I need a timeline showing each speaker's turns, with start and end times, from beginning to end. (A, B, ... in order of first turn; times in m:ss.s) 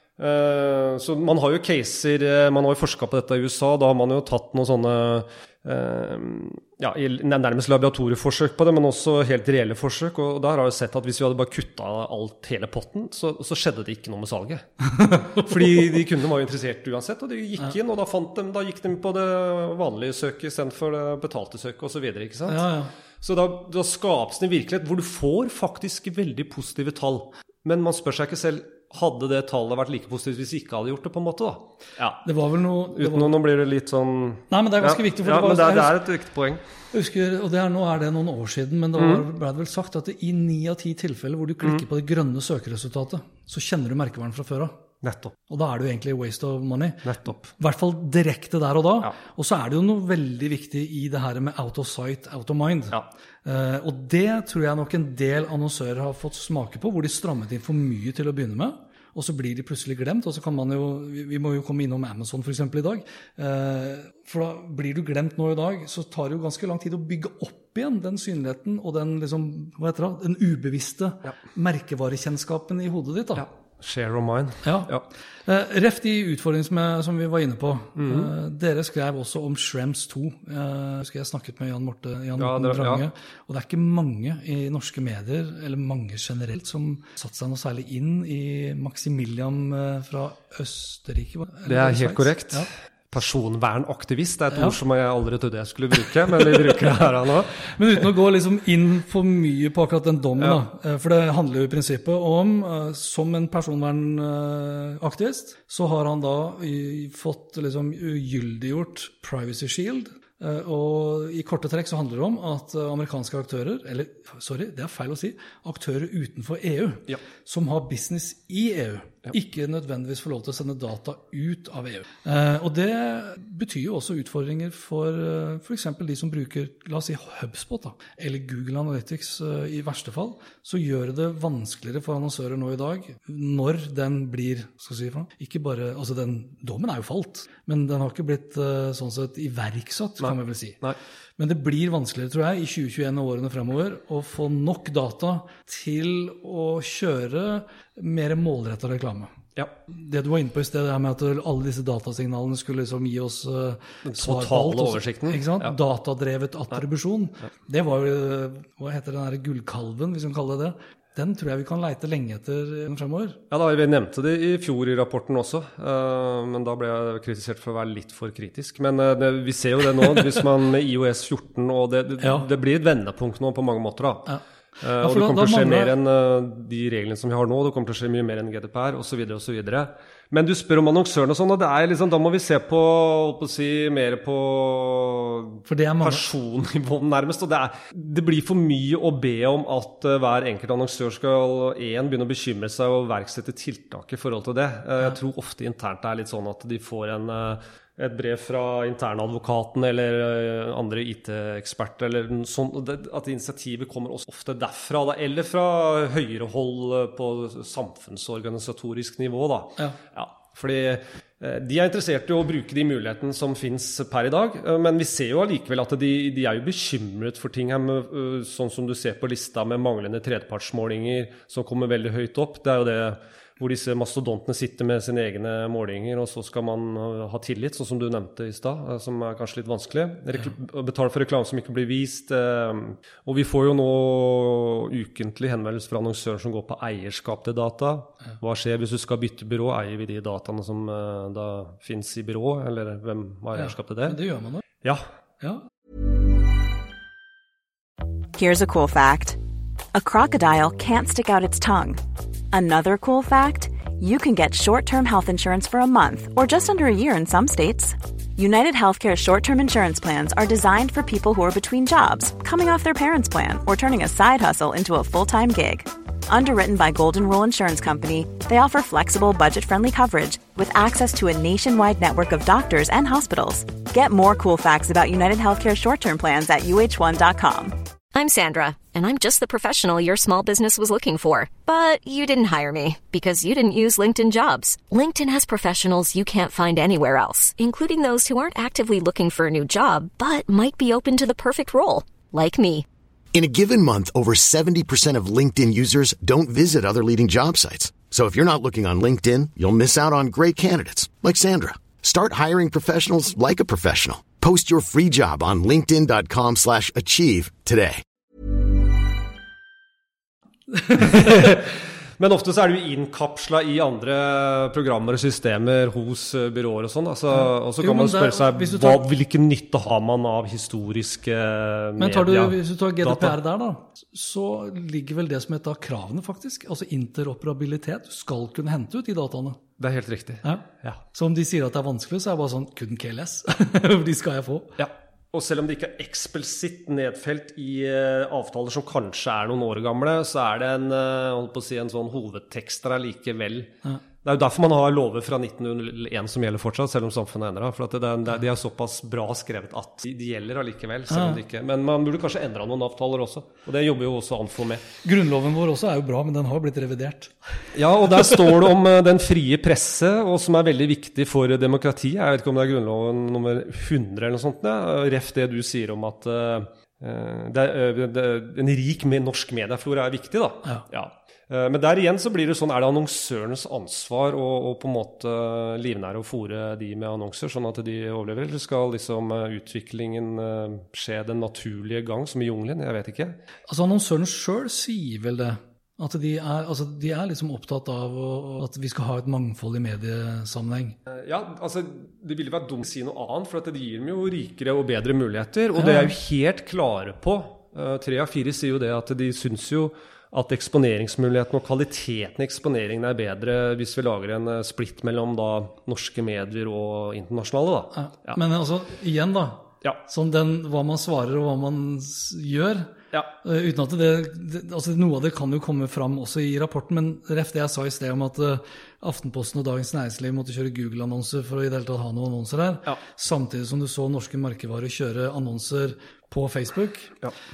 0:00.2-0:22.7 A
0:14.9-0:16.0 B
0:22.5-0:22.9 B
0:23.2-0:32.3 A
0:32.2-0:33.3 B
0:32.9-0:36.6 A
0:34.5-0:36.0 B
0:36.9-0:44.8 B
0:39.0-0:39.2 A
0:45.0-0:45.4 A
0:45.5-1:13.5 B
0:47.0-0:47.5 A
1:13.4-1:15.0 A
1:14.6-1:32.7 B
1:18.0-1:18.3 A
1:22.4-1:23.1 A
1:31.7-1:37.7 A
1:34.5-1:34.8 B
1:37.7-2:20.8 B
2:20.2-2:21.0 A
2:21.4-2:29.4 B
2:29.9-2:43.4 B
2:34.1-2:35.8 A
2:43.5-4:04.2 A
2:52.2-2:52.5 B
2:55.0-2:56.0 B
3:05.7-3:06.2 B
4:03.6-4:04.6 B
4:08.4-4:09.4 C
4:09.9-4:12.0 C
4:12.5-4:37.8 C
4:38.1-4:52.9 D
4:53.3-5:08.0 E
5:10.7-5:11.3 B
5:11.0-5:23.4 A
5:17.3-5:19.1 B
5:22.0-5:29.6 B
5:29.8-5:31.0 A
5:30.4-5:34.8 B
5:34.8-5:43.7 A
5:44.2-5:54.8 A
5:51.1-5:51.4 B
5:55.0-5:57.4 B
5:57.8-6:23.4 A
6:23.7-6:31.0 B
6:31.1-6:48.4 A
6:35.8-6:36.2 B
6:47.9-7:07.2 B